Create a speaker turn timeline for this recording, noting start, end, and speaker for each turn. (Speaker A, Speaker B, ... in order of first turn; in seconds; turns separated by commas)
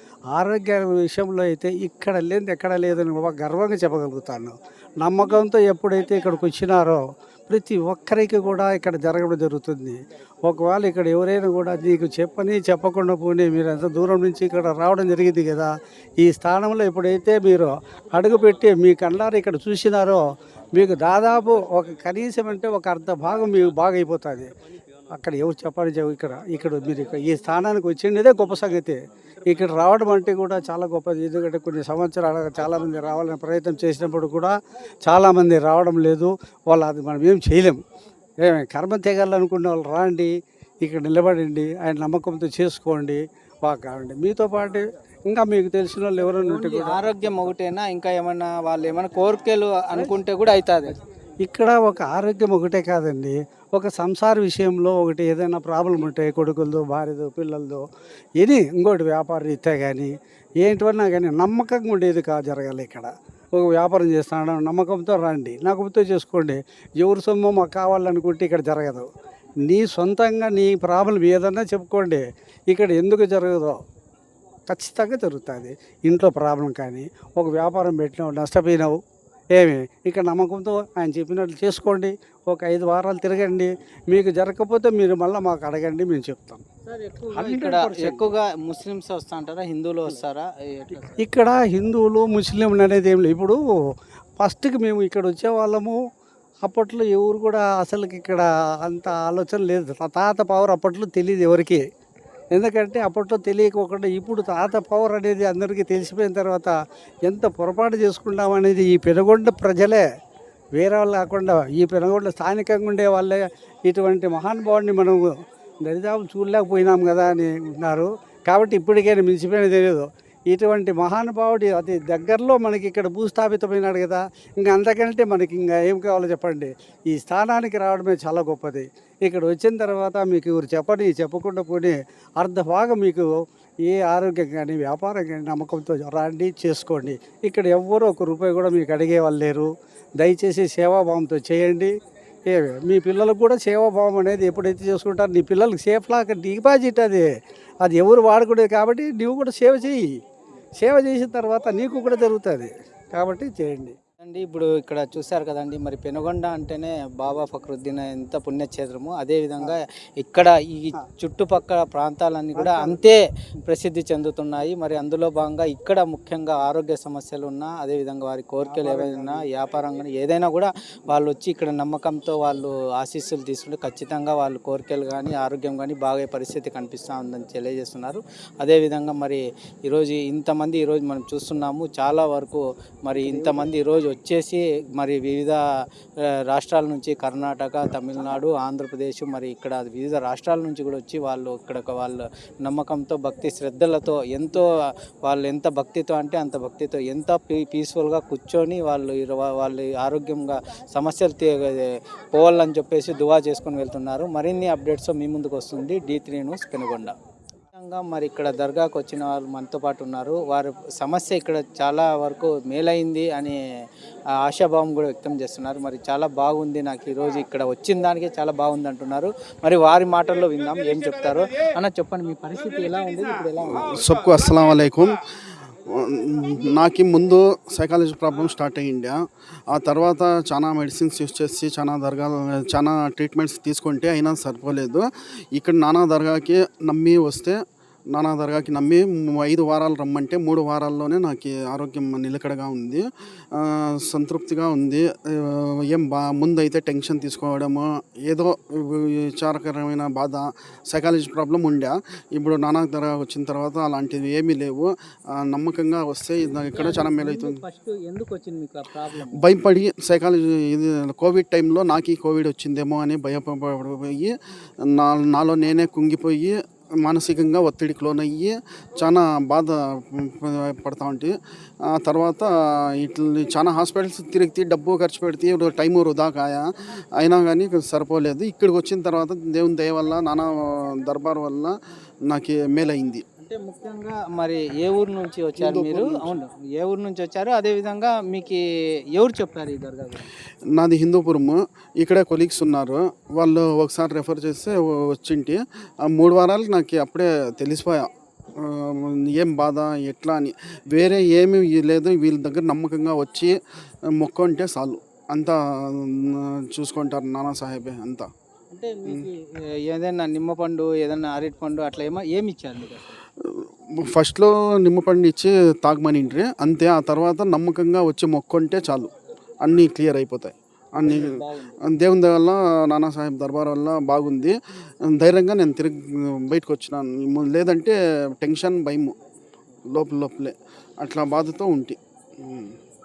Speaker A: 0.3-20.2, Speaker A: 20.7-24.5, Speaker A: 25.1-34.5, Speaker A: 35.0-37.8, Speaker A: 38.4-47.1, Speaker B: 46.2-51.0, Speaker A: 51.4-57.8, Speaker A: 58.4-69.1, Speaker A: 69.7-73.8, Speaker A: 74.7-79.0, Speaker A: 79.5-86.6, Speaker B: 86.8-91.2, Speaker A: 87.3-88.3, Speaker A: 91.2-93.6, Speaker A: 94.4-96.0, Speaker A: 96.6-101.8, Speaker A: 102.5-106.7, Speaker A: 107.2-110.0, Speaker A: 110.8-115.3, Speaker A: 115.8-133.3, Speaker A: 133.8-141.9, Speaker A: 142.5-147.2, Speaker A: 147.8-150.1, Speaker A: 150.8-153.9, Speaker B: 154.2-185.6, Speaker A: 162.6-163.0, Speaker A: 168.6-169.4, Speaker A: 183.2-183.7, Speaker B: 186.5-194.7, Speaker B: 195.2-207.1, Speaker B: 207.7-213.6, Speaker B: 214.4-223.9, Speaker C: 223.7-225.1, Speaker C: 225.9-229.2, Speaker C: 229.7-237.6, Speaker C: 238.1-257.6, Speaker B: 256.6-259.5, Speaker C: 259.4-264.3, Speaker C: 264.9-271.3, Speaker C: 271.9-276.6, Speaker C: 277.2-280.5, Speaker C: 281.0-281.7, Speaker C: 282.3-283.2, Speaker B: 283.4-288.6, Speaker C: 285.6-286.3, Speaker B: 289.1-290.2, Speaker C: 290.8-298.1, Speaker C: 298.6-303.5, Speaker C: 304.2-308.3, Speaker B: 308.7-313.2, Speaker C: 314.0-319.1, Speaker C: 319.6-324.5, Speaker B: 321.0-321.8, Speaker C: 325.1-329.1, Speaker C: 329.9-332.7